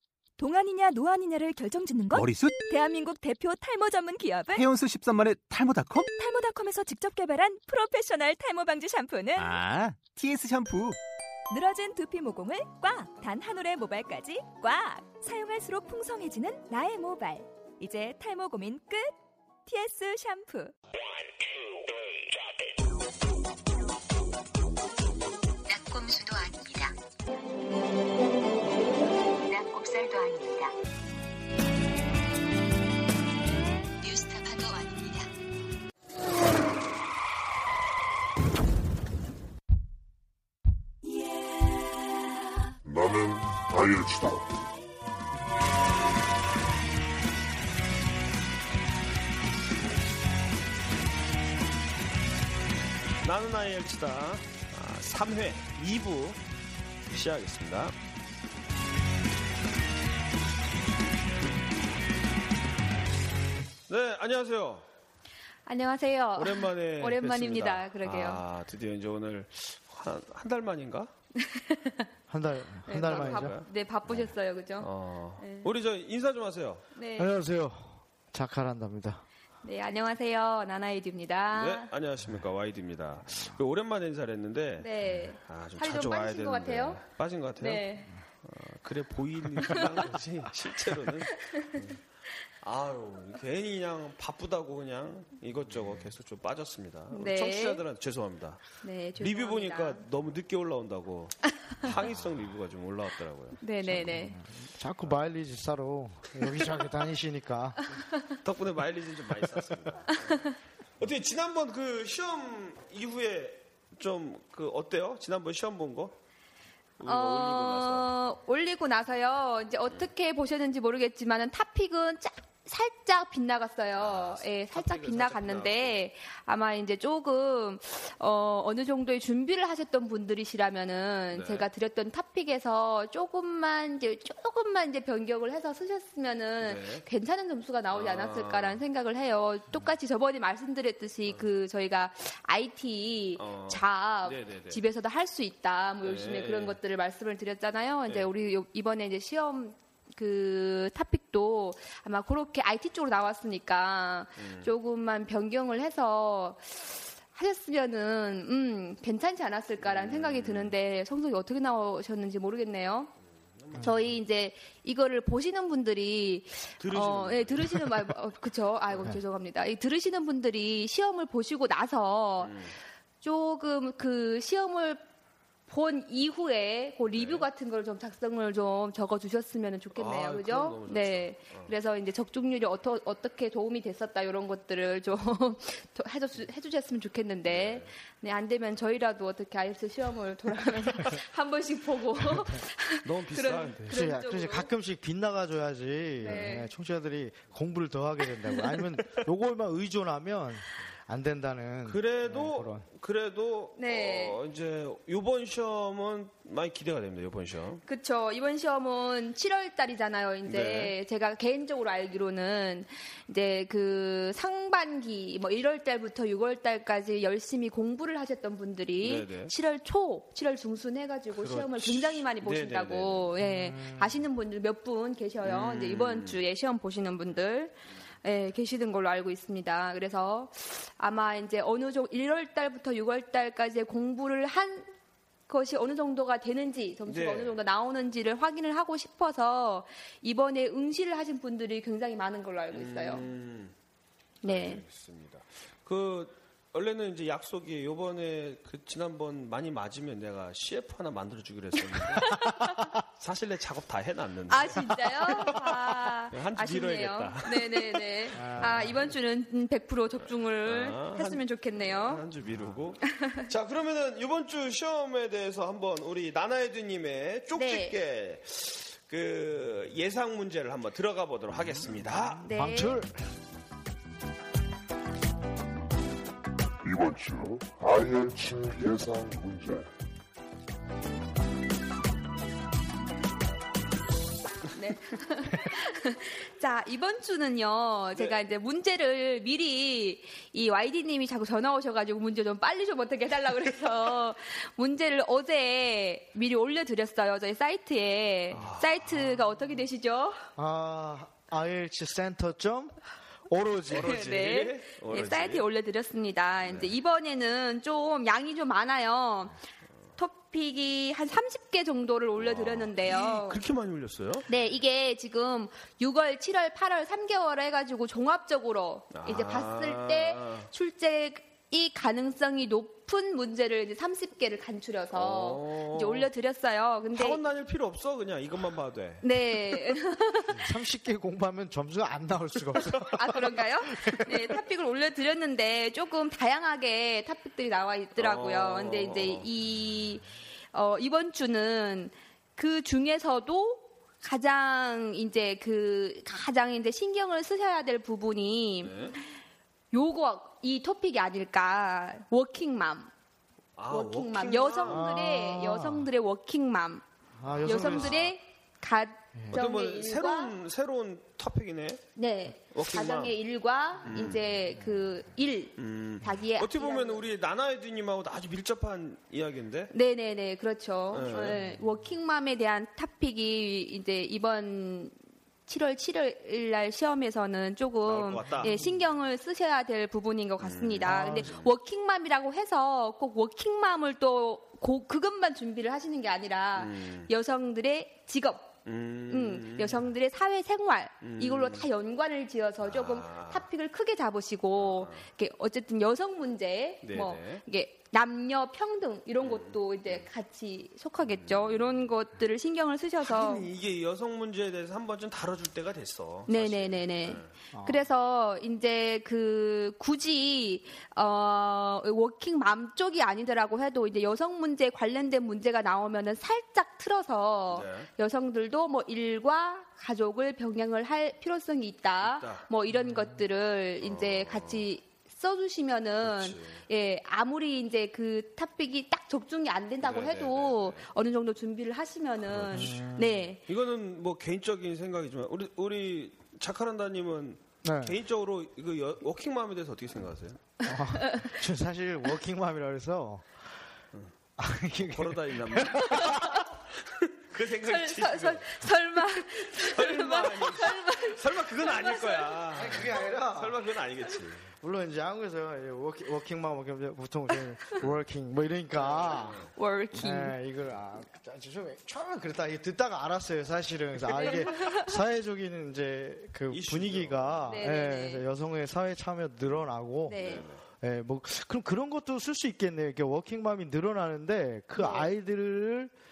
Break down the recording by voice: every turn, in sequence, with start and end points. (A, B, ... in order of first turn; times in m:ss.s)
0:00.4-0:04.6 A
0:02.1-0:02.6 B
0:04.5-0:06.1 B
0:06.0-0:09.6 A
0:09.4-0:11.0 B
0:11.5-0:19.1 A
0:19.6-0:20.7 A
0:25.6-0:26.9 C
0:29.4-0:30.7 C
0:34.0-0:35.3 C
0:42.8-0:44.6 D
0:53.2-0:56.4 E
0:57.1-0:58.0 E
1:03.9-1:04.8 E
1:05.6-1:08.4 F
1:06.4-1:11.1 E
1:11.4-1:12.1 F
1:12.3-1:13.5 G
1:12.8-1:15.7 F
1:13.1-1:13.7 E
1:14.8-1:16.8 E
1:16.9-1:17.3 F
1:17.2-1:19.2 G
1:19.6-1:21.9 F
1:21.5-1:27.8 E
1:24.8-1:27.0 F
1:27.6-1:28.1 F
1:28.4-1:32.0 E
1:31.3-1:31.7 F
1:32.6-1:43.6 E
1:37.1-1:37.8 F
1:38.8-1:40.0 F
1:43.6-1:44.4 F
1:43.8-1:47.8 G
1:48.4-1:56.2 E
1:57.0-1:58.1 E
1:57.0-2:43.1 F
2:04.0-2:06.0 E
2:11.3-2:11.7 E
2:16.6-2:17.0 E
2:17.9-2:18.8 E
2:23.4-2:24.8 E
2:26.0-2:26.8 E
2:34.4-2:34.7 E
2:39.8-2:40.7 E
2:43.6-2:44.2 E
2:43.8-2:52.6 F
2:46.8-2:47.9 E
2:52.4-2:52.7 E
2:53.2-2:55.0 F
2:55.7-3:14.7 F
2:57.1-2:57.5 E
2:59.9-3:01.7 E
3:07.4-3:07.9 E
3:13.0-3:13.8 E
3:13.9-3:22.8 G
3:16.2-3:16.5 E
3:16.2-3:16.7 F
3:21.8-3:27.8 E
3:23.8-3:24.4 F
3:27.8-3:54.9 F
3:30.4-3:30.9 E
3:39.0-3:39.5 E
3:41.3-3:43.3 E
3:43.4-3:44.2 G
3:45.4-3:46.4 E
3:55.5-4:03.3 F
3:57.1-3:57.6 E
4:02.7-4:03.7 E
4:04.4-4:04.8 F
4:04.4-4:12.3 E
4:11.9-4:12.9 F
4:12.4-4:12.9 G
4:13.2-4:15.5 E
4:14.5-4:22.2 F
4:16.3-4:19.0 E
4:18.3-4:19.0 G
4:20.6-4:32.4 E
4:23.1-4:23.4 F
4:27.5-4:28.0 F
4:32.0-4:33.2 G
4:32.4-4:33.0 F
4:36.8-4:39.9 D
4:44.7-5:00.4 F
4:58.5-4:59.4 E
5:00.6-5:03.0 G
5:03.5-5:04.2 G
5:03.8-5:05.6 E
5:03.9-5:09.6 F
5:06.6-5:06.9 E
5:10.2-5:13.6 F
5:12.4-5:14.5 E
5:14.5-5:27.4 F
5:19.1-5:20.7 E
5:25.1-5:26.3 E
5:27.1-5:29.8 E
5:29.2-5:30.7 F
5:30.5-5:34.5 G
5:33.0-5:48.9 F
5:38.2-5:39.5 E
5:48.8-5:49.2 E
5:49.9-5:53.1 F
5:53.8-5:55.1 E
5:53.9-5:57.0 F
5:54.9-5:56.1 G
5:57.4-5:58.2 G
5:57.5-5:58.3 E
5:57.6-6:00.5 F
5:59.5-6:02.1 E
6:02.2-6:07.3 F
6:02.7-6:03.4 E
6:04.0-6:04.4 E
6:05.8-6:09.9 E
6:09.9-6:15.1 F
6:11.1-6:11.6 E
6:15.7-6:28.7 F
6:18.0-6:18.8 E
6:20.6-6:21.7 E
6:21.0-6:21.5 G
6:26.8-6:27.3 E
6:28.8-6:30.0 E
6:29.3-6:43.7 F
6:31.2-6:31.9 E
6:32.8-6:33.6 E
6:34.8-6:35.2 E
6:37.0-6:37.6 E
6:39.4-6:40.3 E
6:41.4-6:42.1 E
6:43.2-6:47.5 E
6:46.5-7:13.6 F
6:47.7-6:48.1 G
6:57.7-6:58.1 E
7:02.2-7:02.7 E
7:02.9-7:03.3 G
7:04.0-7:04.9 E
7:06.2-7:06.8 E
7:10.0-7:11.1 E
7:12.5-7:13.0 E
7:12.7-7:13.5 G
7:13.7-7:20.7 E
7:17.8-7:18.2 G
7:20.8-7:23.5 G
7:21.1-7:21.5 F
7:24.6-7:26.6 G
7:25.0-7:28.8 E
7:27.8-7:32.7 F
7:29.4-7:34.7 E
7:32.7-7:33.9 G
7:34.8-7:56.1 G
7:38.9-7:39.7 E
7:39.7-7:40.6 F
7:44.4-7:45.1 F
7:46.7-7:47.8 E
7:47.7-7:48.4 F
7:50.3-7:50.6 F
7:50.4-7:50.8 E
7:55.0-7:55.3 F